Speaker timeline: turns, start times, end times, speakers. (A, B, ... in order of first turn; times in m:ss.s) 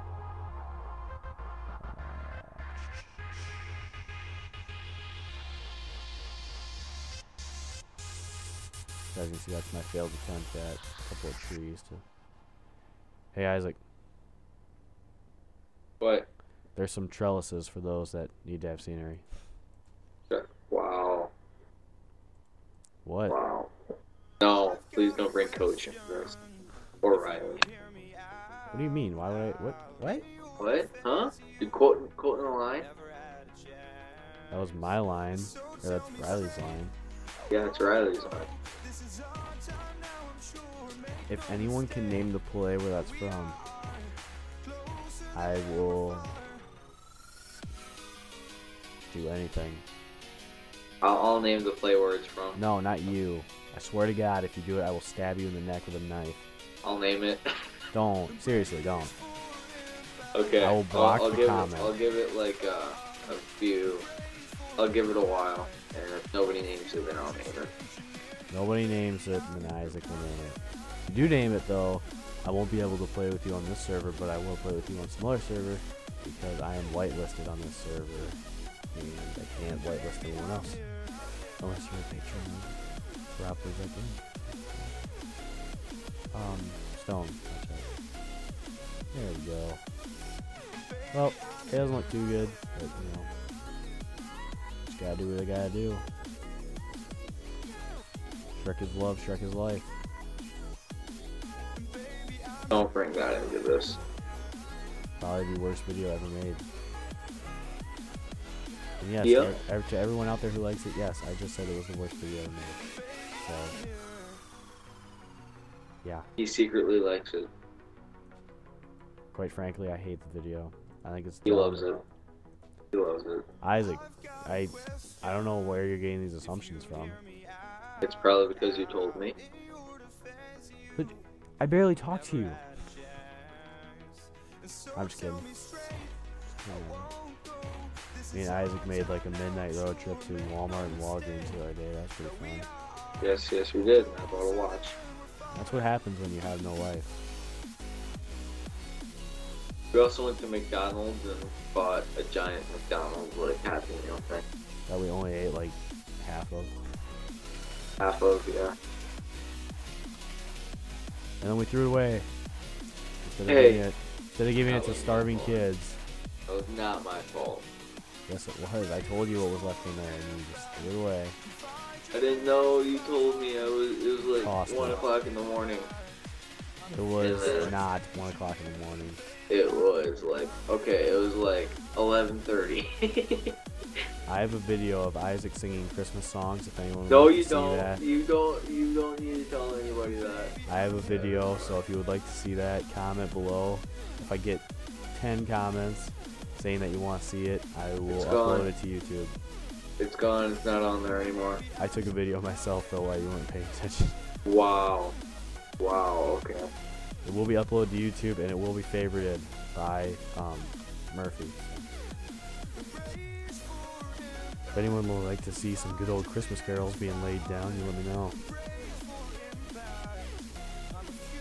0:01.8-0:02.9 A
0:09.1-0:12.0 A
0:13.3-0:13.8 A
0:16.0-0:16.3 B
0:16.7-0:19.3 A
0:20.3-0:21.3 B
0:23.0-0:23.4 A
0:23.3-0:23.7 B
0:24.4-0:26.4 B
0:27.0-0:27.6 B
0:28.7-0:30.3 A
0:30.6-0:32.9 B
0:34.5-0:36.9 A
0:37.5-0:38.5 B
0:41.3-0:43.6 A
0:45.3-0:46.4 A
0:49.0-0:49.8 A
0:51.0-0:52.6 B
0:52.5-0:56.4 A
0:56.8-0:57.4 B
0:57.9-0:59.2 A
1:00.3-1:04.1 B
1:00.6-1:01.9 A
1:04.8-1:07.7 B
1:08.5-1:18.4 A
1:18.9-1:20.9 A
1:21.6-1:22.8 A
1:23.3-1:24.9 A
1:26.3-1:27.9 A
1:29.1-1:29.8 A
1:31.1-1:33.3 A
1:34.8-1:36.0 A
1:38.6-1:39.9 A
1:42.7-1:44.0 B
1:45.2-1:46.6 A
1:49.0-1:53.8 A
1:49.2-1:49.6 B
1:56.4-1:57.5 B
1:59.3-2:02.0 A
2:01.4-2:02.0 B
2:02.9-2:03.5 B
2:03.6-2:07.2 A
2:08.0-2:09.4 B
2:11.0-2:12.6 A
2:14.9-2:15.5 A
2:16.6-2:17.1 A
2:18.3-2:22.7 A
2:23.2-2:25.0 B
2:25.5-2:27.1 A
2:29.9-2:34.4 B
2:34.9-2:36.8 A
2:38.0-2:38.8 B
2:41.4-2:42.3 A
2:43.2-2:46.0 A
2:43.5-2:43.8 B
2:44.6-2:45.6 B
2:46.5-2:47.7 B
2:48.3-2:51.4 A
2:52.1-2:55.9 B
2:54.4-2:55.1 A
2:56.9-2:59.2 A
2:57.2-2:57.7 B
2:59.5-3:03.6 B
3:04.3-3:08.0 A
3:07.1-3:11.8 B
3:10.7-3:19.3 A
3:18.1-3:18.7 B
3:20.0-3:21.6 B
3:21.8-3:24.2 A
3:24.4-3:25.2 B
3:25.8-3:26.7 B
3:27.2-3:31.9 A
3:34.7-3:38.4 A